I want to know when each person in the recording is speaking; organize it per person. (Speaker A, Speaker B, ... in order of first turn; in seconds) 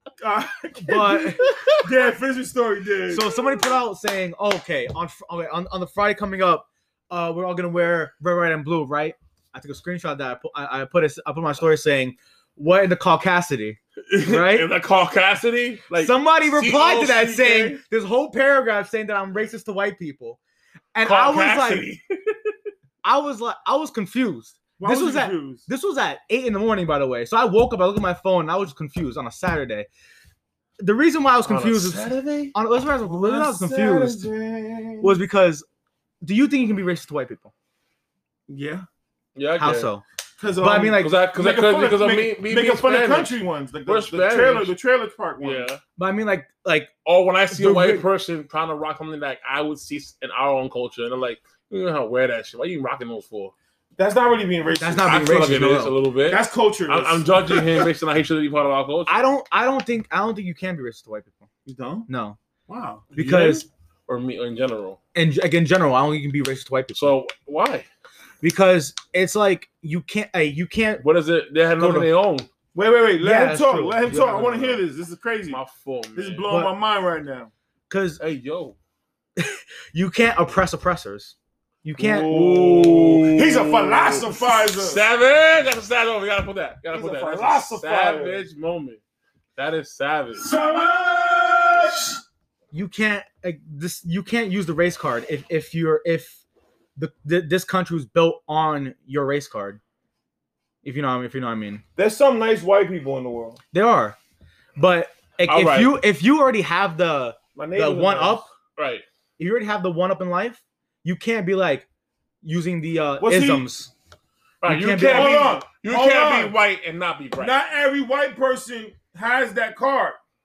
Speaker A: 0.2-3.4, 24.8-25.7, 33.0-35.2, 38.5-38.9, 40.4-45.7, 54.0-55.2, 56.3-57.6, 61.7-62.1, 62.7-63.0, 72.7-75.6, 76.2-77.5, 82.0-85.0, 86.9-88.4, 90.5-91.7, 102.0-103.6, 107.6-108.5, 113.2-113.7, 115.0-116.6, 117.4-120.2
Speaker B: 0.8-1.8, 3.1-14.7, 16.0-20.4, 20.9-21.9, 23.0-29.9, 30.8-34.2, 35.0-35.7, 36.2-37.5, 39.6-40.0, 40.6-41.1, 46.0-46.9, 47.5-48.1, 54.8-56.0, 59.1-61.5, 62.1-62.4, 63.1-63.7, 65.1-67.1, 68.4-71.1, 71.8-72.1, 73.2-74.8, 76.5-76.7, 77.9-78.2, 79.4-82.6, 92.7-96.4, 97.0-99.8, 100.8-101.8, 103.7-104.2, 104.8-108.5, 109.4-111.9, 112.4-113.9, 114.6-115.6
Speaker C: 14.1-17.8, 21.0-22.5, 31.4-32.5, 39.4-39.9, 41.0-43.4, 43.9-44.7, 45.4-45.8, 47.0-53.5, 55.1-59.2, 63.1-65.0, 67.0-67.9, 71.0-72.5, 75.5-76.5, 78.2-78.8, 82.3-89.0, 89.6-90.5, 105.5-106.0, 108.8-109.0, 114.6-117.6